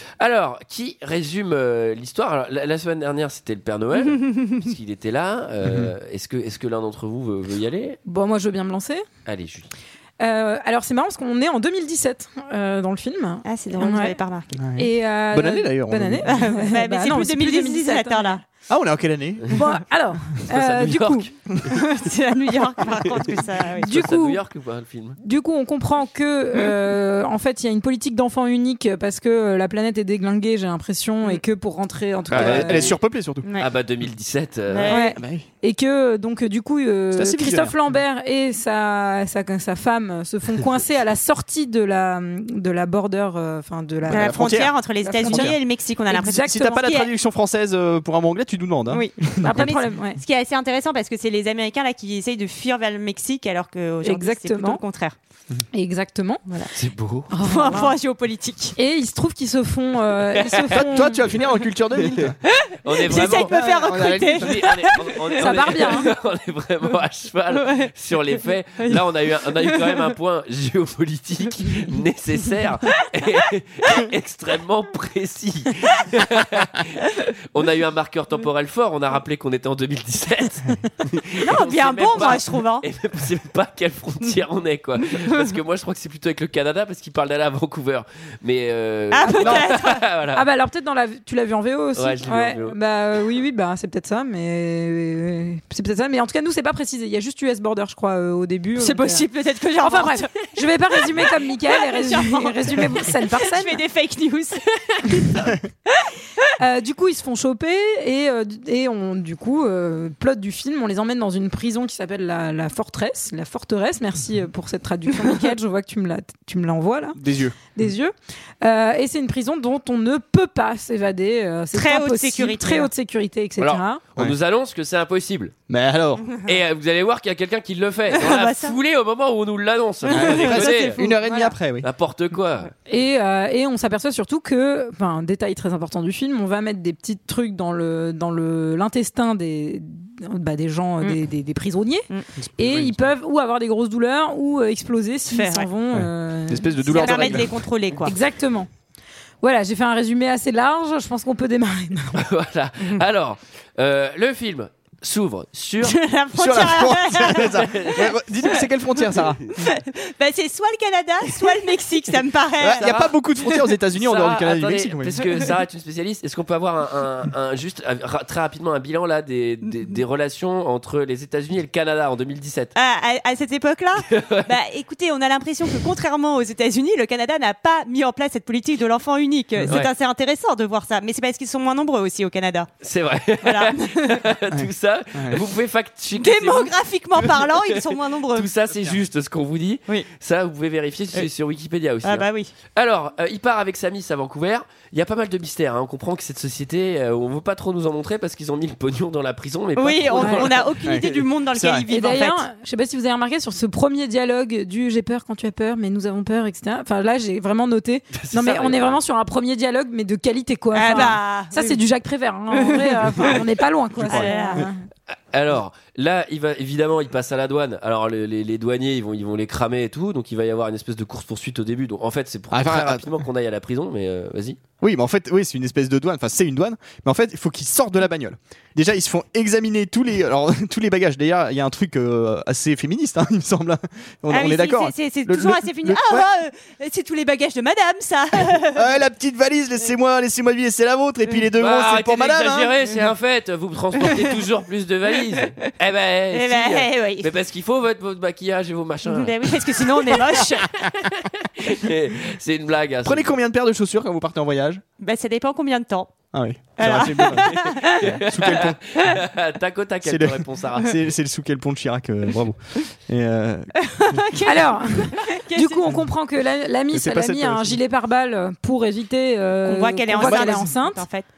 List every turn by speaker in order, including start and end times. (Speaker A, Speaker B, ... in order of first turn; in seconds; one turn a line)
Speaker A: 0.2-8.0
Speaker B: 4.0-4.5
Speaker C: 5.6-5.9
Speaker D: 8.1-9.0
Speaker A: 9.2-9.7
Speaker D: 10.2-14.2
Speaker B: 13.4-14.6
Speaker C: 14.6-16.4
Speaker D: 14.8-18.4
Speaker B: 16.3-18.4
Speaker C: 18.7-19.6
Speaker D: 19.5-21.3
Speaker A: 20.5-21.3
Speaker B: 21.7-23.9
Speaker D: 23.8-24.4
Speaker A: 23.9-25.2
Speaker D: 25.2-32.9
Speaker A: 32.3-33.0
Speaker C: 32.3-33.5
Speaker B: 33.4-33.7
Speaker A: 33.6-35.0
Speaker B: 34.7-35.1
Speaker D: 34.9-45.5
Speaker C: 35.1-35.4
Speaker C: 37.1-37.8
Speaker C: 44.1-45.6
Speaker B: 44.1-47.1
Speaker D: 46.1-46.9
Speaker C: 46.3-49.8
Speaker B: 48.9-55.1
Speaker D: 49.4-50.2
Speaker D: 54.0-54.8
Speaker D: 55.7-56.4
Speaker A: 56.7-57.3
Speaker D: 57.3-58.0
Speaker B: 57.4-58.8
Speaker D: 58.8-61.2
Speaker A: 60.5-60.8
Speaker C: 60.8-62.4
Speaker A: 62.0-63.5
Speaker B: 62.6-65.2
Speaker C: 63.2-64.9
Speaker A: 64.2-90.4
Speaker D: 65.3-66.1
Speaker B: 67.5-67.9
Speaker B: 68.8-69.0
Speaker B: 69.5-70.1
Speaker B: 81.4-82.8
Speaker B: 89.1-90.0
Speaker D: 90.3-99.3
Speaker A: 92.0-92.8
Speaker B: 98.8-105.6
Speaker D: 99.8-103.8
Speaker D: 106.6-124.0
Speaker C: 117.2-117.9
Speaker B: 121.7-122.9
Speaker A: 123.6-125.5
Speaker C: 125.7-126.3
Speaker A: 126.4-131.0
Speaker B: 128.1-128.8
Speaker B: 130.1-131.5
Speaker C: 130.1-131.8
Speaker A: 131.8-132.7
Speaker D: 132.9-142.1
Speaker C: 142.4-143.1
Speaker D: 142.6-147.5
Speaker B: 145.3-145.7
Speaker C: 145.9-147.5
Speaker B: 146.8-148.1
Speaker D: 148.0-148.7
Speaker D: 149.4-152.2
Speaker A: 152.1-155.9
Speaker B: 155.8-158.7
Speaker C: 156.3-159.5
Speaker A: 157.3-158.0
Speaker B: 159.5-163.0
Speaker C: 162.6-165.1
Speaker A: 162.8-163.1
Speaker A: 163.9-172.7
Speaker B: 172.7-182.7
Speaker A: 174.1-174.4
Speaker A: 182.8-187.6
Speaker B: 183.4-184.2
Speaker C: 184.5-185.4
Speaker B: 186.2-188.5
Speaker A: 188.3-200.7
Speaker B: 192.0-192.5
Speaker B: 199.8-202.4
Speaker D: 200.2-200.4
Speaker C: 200.8-201.8
Speaker D: 201.9-214.8
Speaker A: 208.1-209.0
Speaker B: 210.7-211.8
Speaker B: 212.5-213.4
Speaker B: 214.1-214.6
Speaker C: 214.1-214.7
Speaker A: 215.3-224.6
Speaker C: 222.5-223.2
Speaker C: 224.8-236.3
Speaker B: 234.3-238.9
Speaker C: 238.6-242.7
Speaker A: 241.6-249.7
Speaker B: 246.3-247.3
Speaker B: 249.1-250.7
Speaker A: 250.6-253.3
Speaker C: 253.0-254.8
Speaker B: 255.0-256.1
Speaker C: 256.3-259.1
Speaker B: 256.8-258.0
Speaker A: 257.5-260.9
Speaker C: 260.0-263.7
Speaker B: 263.8-265.9
Speaker D: 264.4-271.1
Speaker C: 266.9-267.8
Speaker B: 269.6-271.3
Speaker C: 270.2-270.7